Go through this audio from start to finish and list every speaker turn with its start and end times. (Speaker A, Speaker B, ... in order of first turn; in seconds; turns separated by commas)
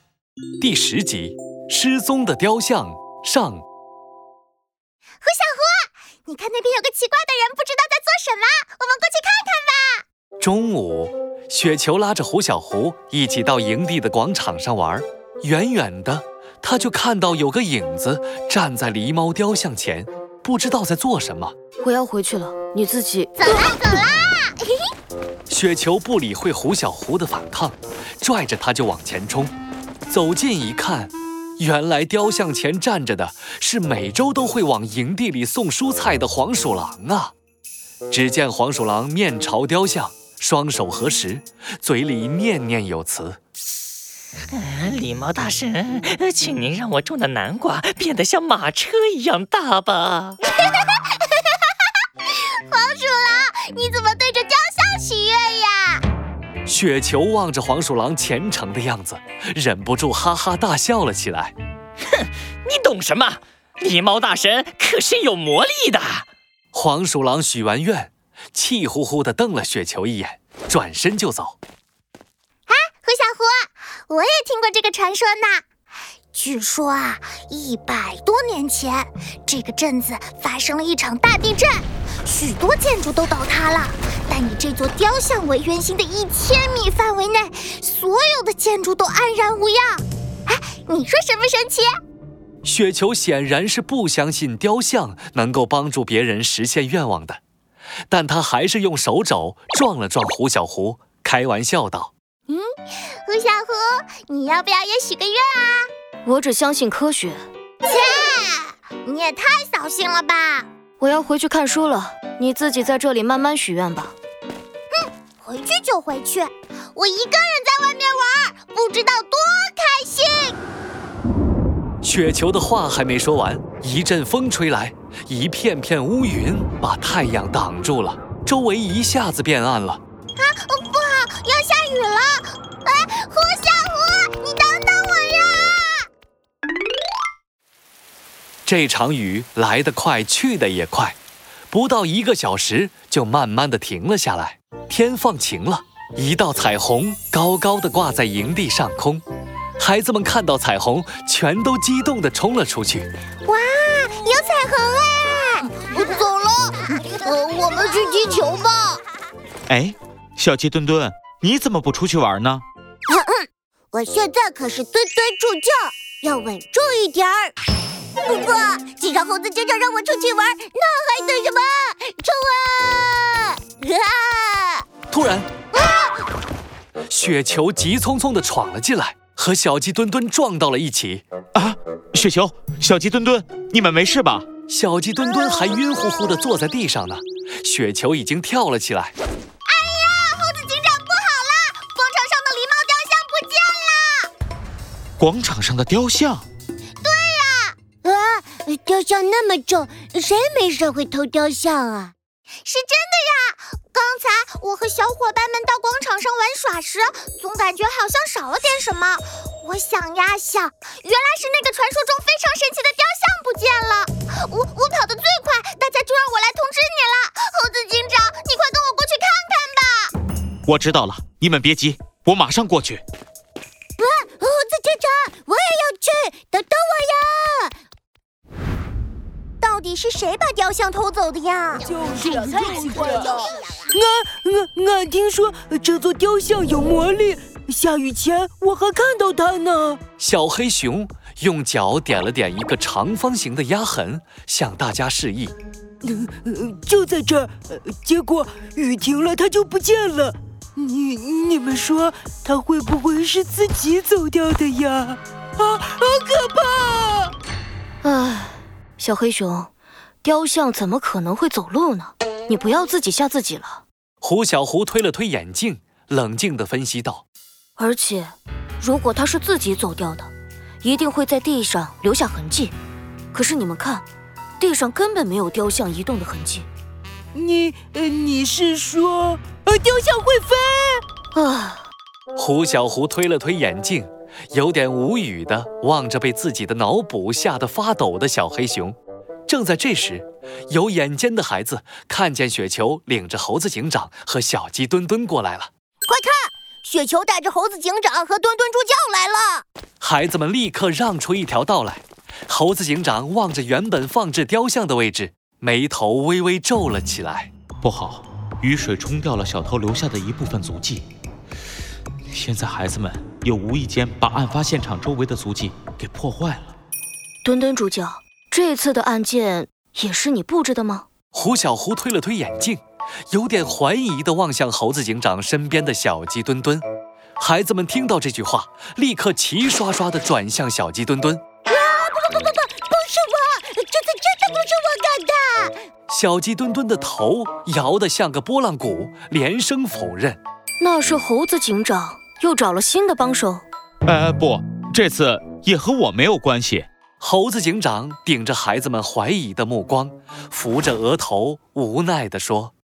Speaker A: 0.6-3.6, Speaker B: 5.2-10.0, Speaker A: 10.4-21.5, Speaker C: 21.8-23.6, Speaker B: 23.4-24.8, Speaker A: 25.5-29.5, Speaker A: 30.1-37.3, Speaker A: 38.1-43.4, Speaker D: 44.5-50.4, Speaker B: 52.3-56.0, Speaker A: 56.7-61.5, Speaker D: 62.2-66.3, Speaker A: 66.7-71.6, Speaker B: 72.7-75.6, Speaker B: 76.3-91.9, Speaker A: 92.6-97.4, Speaker A: 98.1-102.1, Speaker B: 103.2-105.9, Speaker C: 106.2-107.4, Speaker B: 107.8-110.7, Speaker C: 111.0-114.2, Speaker B: 114.9-120.6, Speaker A: 122.0-130.0, Speaker B: 130.4-136.1, Speaker A: 138.7-141.2, Speaker A: 141.7-149.2, Speaker A: 149.8-153.1, Speaker B: 153.5-159.0, Speaker E: 159.7-162.6, Speaker B: 163.1-167.5, Speaker B: 168.2-174.9, Speaker A: 175.1-175.5, Speaker B: 175.7-176.2, Speaker A: 177.1-181.2, Speaker E: 181.6-184.5, Speaker A: 184.7-189.1, Speaker B: 189.7-194.3, Speaker E: 195.2-196.4, Speaker B: 197.0-202.1, Speaker B: 202.7-220.1, Speaker E: 220.7-223.0, Speaker B: 224.0-227.7, Speaker B: 229.6-233.9, Speaker F: 231.9-240.0, Speaker A: 240.2-245.6, Speaker F: 246.0-257.3, Speaker C: 258.0-259.7, Speaker C: 260.2-263.8, Speaker A: 264.2-267.2, Speaker C: 267.8-270.3, Speaker C: 270.8-272.7, Speaker C: 273.3-274.1, Speaker C: 274.6-276.7, Speaker F: 277.3-281.0, Speaker C: 281.3-281.9, Speaker A: 282.4-289.0, Speaker A: 289.5-295.7, Speaker B: 296.1-299.6, Speaker A: 300.0-307.5, Speaker E: 307.8-311.1, Speaker E: 312.3-316.7, Speaker C: 317.4-321.1, Speaker A: 321.3-326.9, Speaker A: 327.4-331.4, Speaker B: 331.7-335.8, Speaker A: 336.1-340.4, Speaker C: 340.8-343.6, Speaker E: 344.1-346.9, Speaker A: 347.2-352.7